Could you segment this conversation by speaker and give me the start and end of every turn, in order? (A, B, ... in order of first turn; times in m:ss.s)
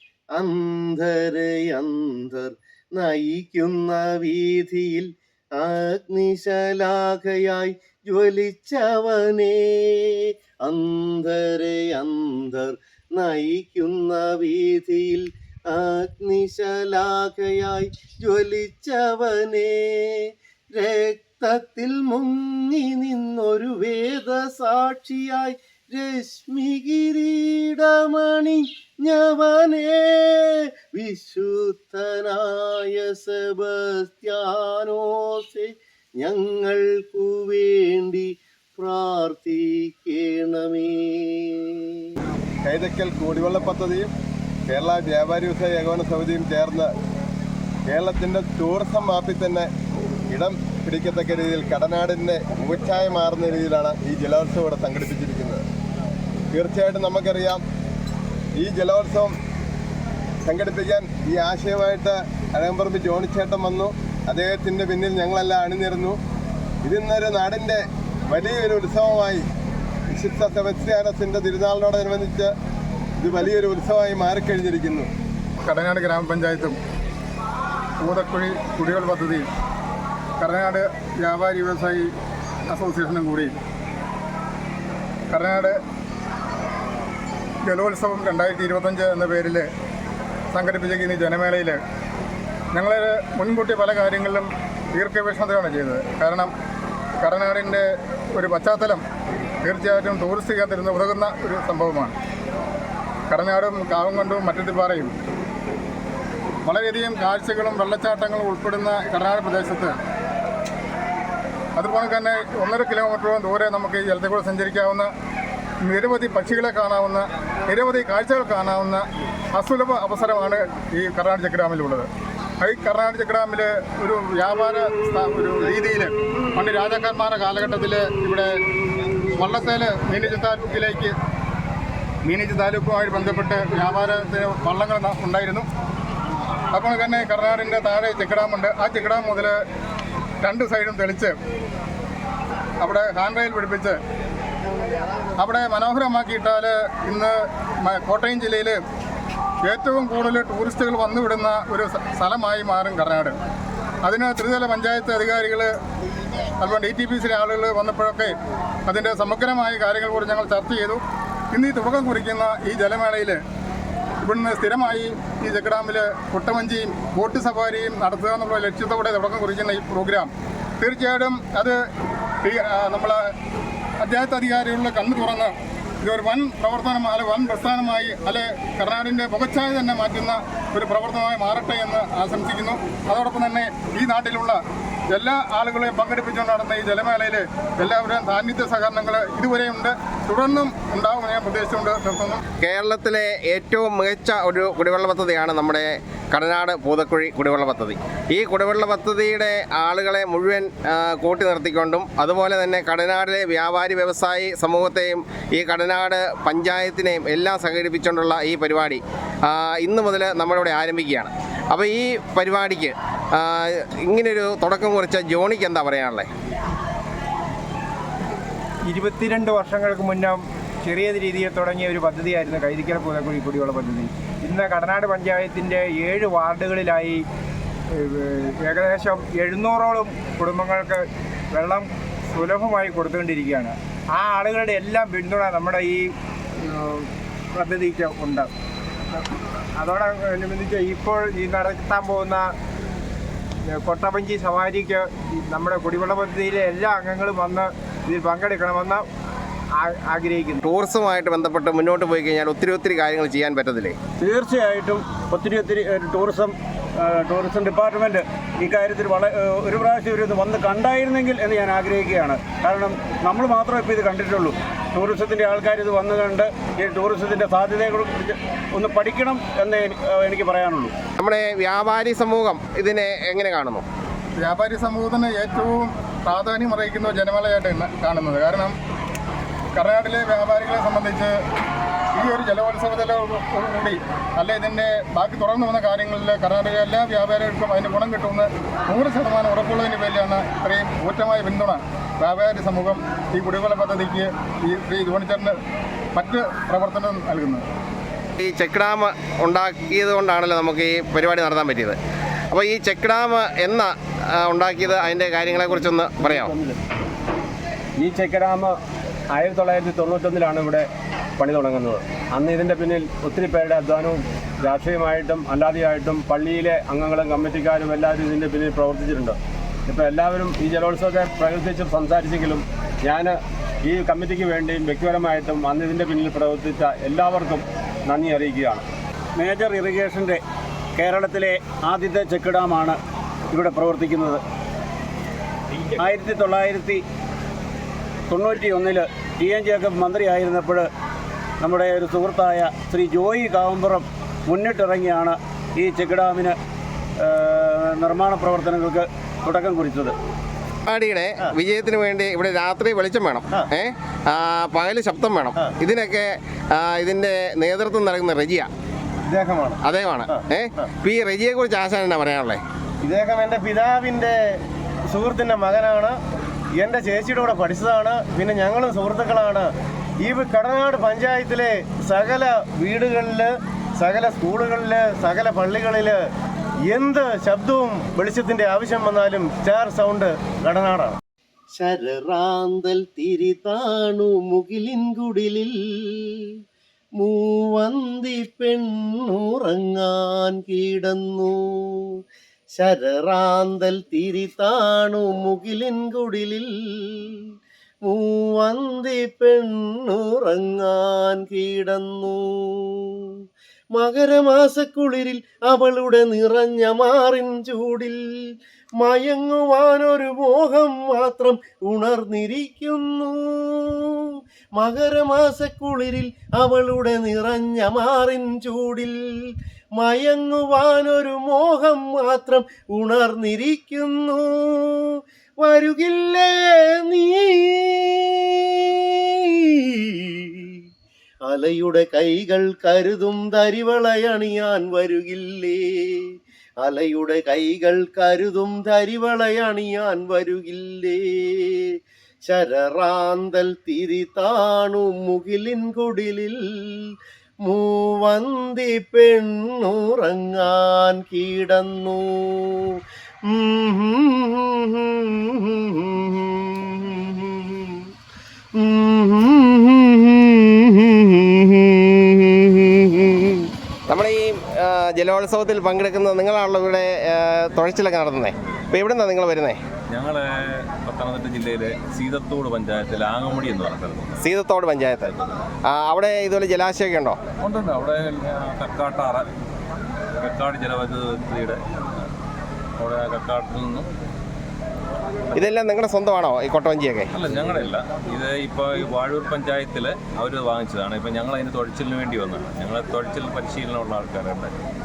0:00.4-0:35.7 A
0:36.2-0:38.2 A
0:38.8-0:41.8 A
0:42.6-0:44.1 B
0:44.7-0:46.9 B
0:47.9-0:49.7 B
0:50.3-0:55.6 B
0:56.5-0:57.6 B
0:58.6-0:59.3 B
1:00.4-1:06.2 B
1:06.8-1:09.4 B
1:10.1-1:12.5 B
1:13.2-1:15.1 B
1:15.6-1:16.8 C
1:18.0-1:19.4 C
1:20.4-1:22.1 C
1:22.7-1:23.5 C
1:25.3-1:25.7 C
1:27.6-1:29.6 C
1:30.5-1:31.8 C
1:32.7-1:36.5 C
1:37.2-1:37.8 C
1:38.4-1:39.0 C
1:39.6-1:42.1 C
1:43.3-1:45.1 C
1:46.6-1:50.0 C
1:51.8-1:55.1 C
1:55.8-1:59.0 C
1:59.5-2:02.1 C
2:02.6-2:08.5 C
2:09.2-2:11.1 C
2:12.2-2:15.6 C
2:16.7-2:19.6 C
2:20.4-2:21.3 C
2:22.8-2:24.0 C
2:25.4-2:27.3 C
2:27.8-2:28.8 C
2:29.6-2:33.3 C
2:34.0-2:35.7 C
2:36.6-2:38.3 C
2:38.9-2:41.0 C
2:41.5-2:43.4 C
2:44.2-2:50.3 C
2:50.8-2:51.7 C
2:52.4-2:53.2 C
2:54.0-3:04.6 C
3:05.1-3:12.4 C
3:12.5-3:36.3 D
3:38.9-3:47.2 E
3:48.0-3:56.1 E
3:56.6-3:58.5 E
3:59.8-4:02.4 E
4:03.7-4:09.0 E
4:09.8-4:10.6 E
4:10.6-4:14.0 D
4:14.2-4:30.9 F
4:31.2-4:33.8 D
4:34.4-4:38.7 C
4:39.7-4:41.3 C
4:42.1-4:55.5 C
4:56.1-4:57.6 C
4:58.4-5:02.0 D
5:02.5-5:06.5 D
5:06.2-5:06.8 F
5:08.0-5:08.8 F
5:09.3-5:10.9 F
5:11.4-5:28.8 F
5:29.4-5:30.4 F
5:31.0-5:33.0 F
5:33.5-5:34.4 F
5:36.0-5:37.0 F
5:38.3-5:40.9 F
5:41.6-5:46.6 F
5:47.2-5:50.1 F
5:50.9-5:58.7 D
5:59.3-6:00.4 A
5:59.8-6:02.6 D
6:03.0-6:04.3 A
6:05.1-6:06.1 A
6:06.8-6:09.7 A
6:10.2-6:16.2 A
6:16.9-6:21.2 A
6:21.8-6:26.4 A
6:27.2-6:32.0 A
6:32.8-6:37.4 A
6:38.1-6:43.3 A
6:44.0-6:48.2 A
6:49.0-6:59.2 A
7:00.0-7:10.8 A
7:11.4-7:16.2 A
7:16.8-7:21.9 A
7:22.4-7:27.1 A
7:27.6-7:33.0 A
7:33.5-7:38.0 A
7:38.8-7:43.6 A
7:44.1-7:49.8 D
7:50.1-7:54.4 G
7:54.4-7:57.4 D
7:57.6-7:59.5 G
8:00.4-8:02.3 G
8:03.0-8:04.1 G
8:05.6-8:07.3 D
8:07.3-8:14.8 G